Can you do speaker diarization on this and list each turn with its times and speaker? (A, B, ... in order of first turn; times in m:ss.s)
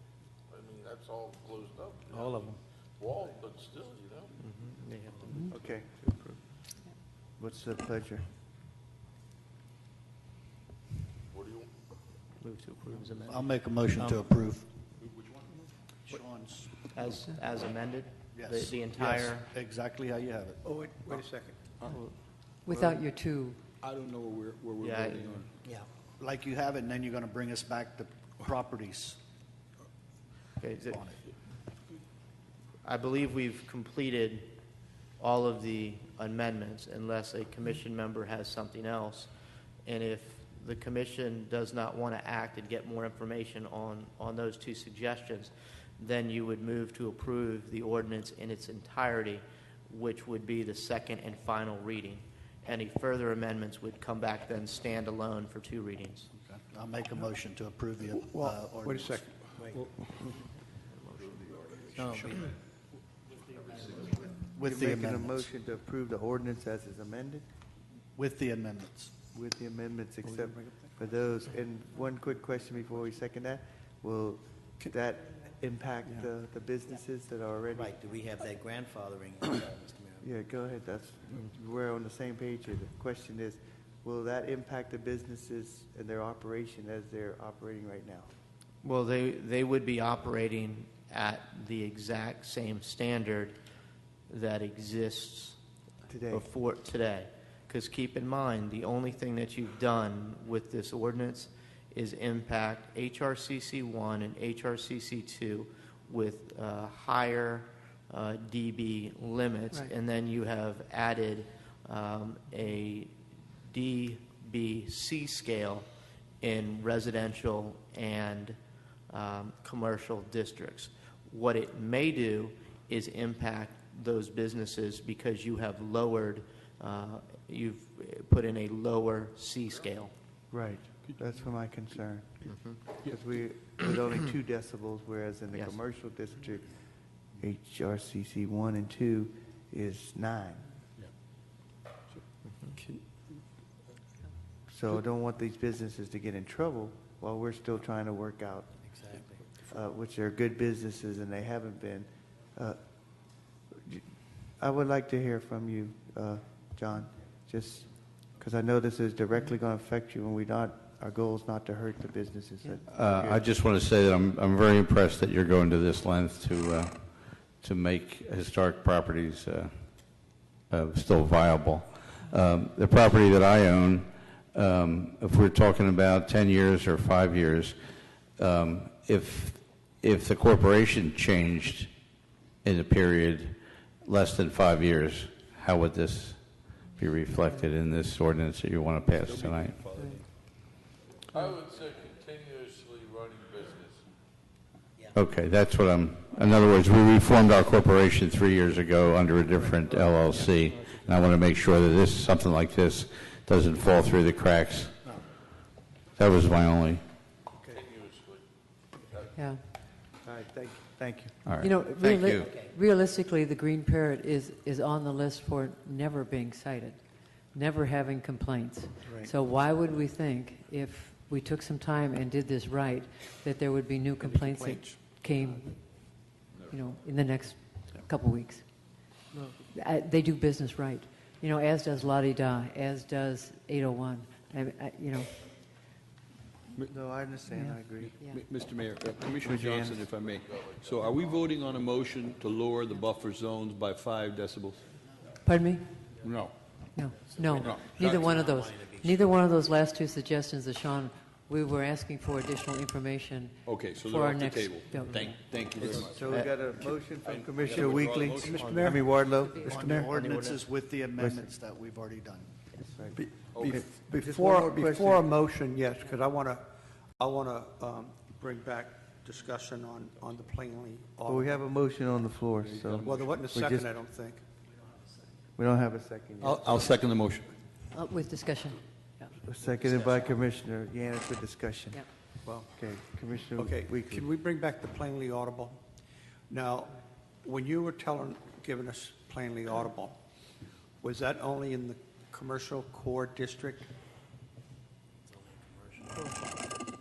0:00.5-0:02.4 A
0:02.1-0:02.6 B
0:03.0-0:04.3 A
0:04.4-0:06.4 C
0:05.5-0:05.9 D
0:07.4-0:08.2 D
0:11.3-0:11.7 A
0:12.4-0:13.5 C
0:13.3-0:14.7 B
0:14.0-0:14.2 E
0:16.1-0:16.8 B
0:16.9-0:19.5 C
0:18.3-0:20.6 B
0:20.6-0:21.9 F
0:22.6-0:23.6 G
0:22.7-0:23.0 D
0:23.8-0:25.5 H
0:24.8-0:25.5 C
0:26.2-0:29.2 B
0:30.6-0:31.0 C
0:30.8-0:31.2 B
0:32.8-0:34.6 C
0:35.2-0:39.3 C
0:39.9-0:56.3 C
0:56.3-0:59.2 B
0:58.1-1:00.2 F
0:59.6-0:59.9 E
1:00.8-1:01.4 C
1:01.3-1:02.0 A
1:01.9-1:02.5 B
1:02.0-1:02.3 E
1:04.2-1:05.5 B
1:04.6-1:07.4 D
1:08.2-1:09.3 B
1:09.3-1:18.0 D
1:10.2-1:10.6 F
1:17.7-1:20.3 E
1:20.2-1:28.3 D
1:28.8-1:33.6 C
1:34.3-1:35.6 C
1:36.1-1:36.5 D
1:36.3-1:53.1 C
1:53.7-1:55.9 C
1:56.4-1:58.6 C
1:59.1-2:10.1 C
2:10.5-2:20.8 D
2:12.4-2:12.8 C
2:15.5-2:15.8 C
2:22.4-2:22.8 C
2:24.7-2:28.9 D
2:28.8-2:29.5 E
2:29.7-2:32.8 D
2:34.6-2:43.5 D
2:42.9-3:09.8 I
3:09.2-3:10.3 H
3:09.9-3:10.2 G
3:11.3-3:14.0 A
3:15.1-3:25.1 I
3:26.2-3:27.0 I
3:27.7-3:28.4 A
3:29.0-3:29.3 A
3:29.4-3:29.6 G
3:30.2-3:31.5 D
3:31.4-3:32.5 I
3:31.6-3:55.4 G
3:32.4-3:32.8 E
3:44.2-3:45.2 F
3:56.9-3:58.2 D
3:57.5-3:58.4 G
3:58.0-4:04.8 H
3:59.4-4:00.1 D
4:00.1-4:02.2 A
4:05.4-4:05.9 G
4:06.2-4:06.6 H
4:06.9-4:15.4 G
4:07.3-4:09.4 E
4:07.4-4:08.4 H
4:13.6-4:16.7 H
4:15.2-4:16.2 E
4:15.8-4:19.6 D
4:16.3-4:16.6 C
4:17.2-4:18.6 H
4:18.3-4:19.1 F
4:19.2-4:19.8 G
4:19.6-4:20.3 F
4:19.6-4:22.6 B
4:20.0-4:20.7 E
4:21.2-4:21.5 D
4:22.9-4:25.2 D
4:23.2-4:26.7 F
4:23.5-4:23.8 H
4:27.2-4:31.6 F
4:31.3-4:33.9 D
4:32.6-4:33.4 H
4:33.0-4:34.4 F
4:35.6-4:36.9 D
4:36.4-4:37.5 H
4:37.9-4:39.3 G
4:39.4-4:42.2 D
4:39.6-4:40.4 E
4:42.4-4:42.8 F
4:42.7-4:44.2 D
4:43.6-4:45.8 F
4:46.5-4:50.2 F
4:51.0-4:53.9 F
4:55.4-4:56.4 E